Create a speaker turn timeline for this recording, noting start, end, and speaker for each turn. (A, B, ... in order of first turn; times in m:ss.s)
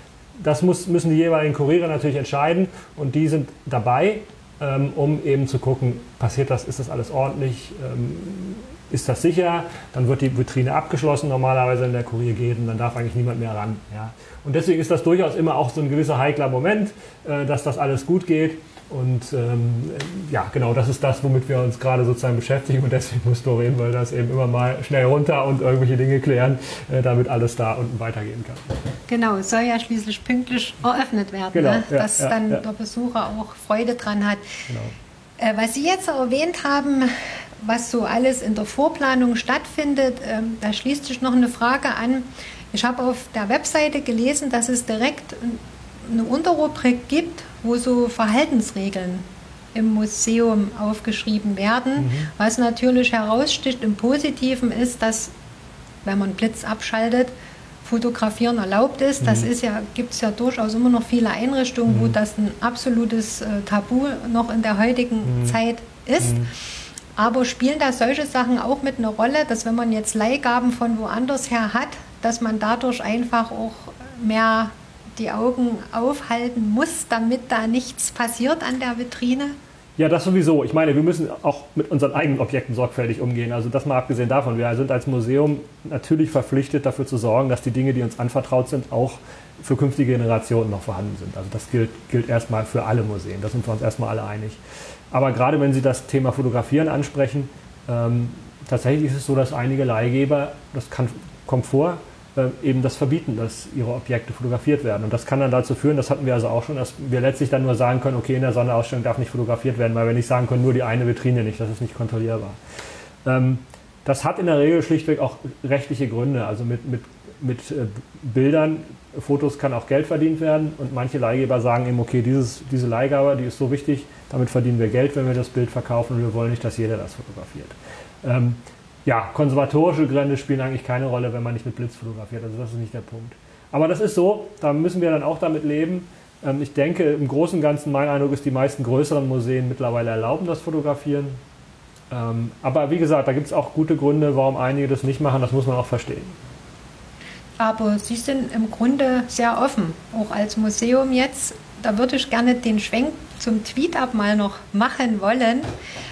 0:00.4-0:28.8 A
0:29.1-0:34.5 B
0:31.5-0:32.6 A
0:34.7-0:34.9 A
0:35.4-0:55.3 B
0:52.0-0:52.3 A
0:56.0-0:57.3 B
0:57.8-1:06.4 B
0:59.2-0:59.5 A
1:01.9-1:02.2 A
1:05.3-1:05.6 A
1:06.2-1:06.5 A
1:07.2-1:19.6 B
1:20.0-1:34.6 A
1:35.1-1:52.6 A
1:53.2-2:21.4 A
2:22.1-2:26.4 A
2:27.6-2:35.7 B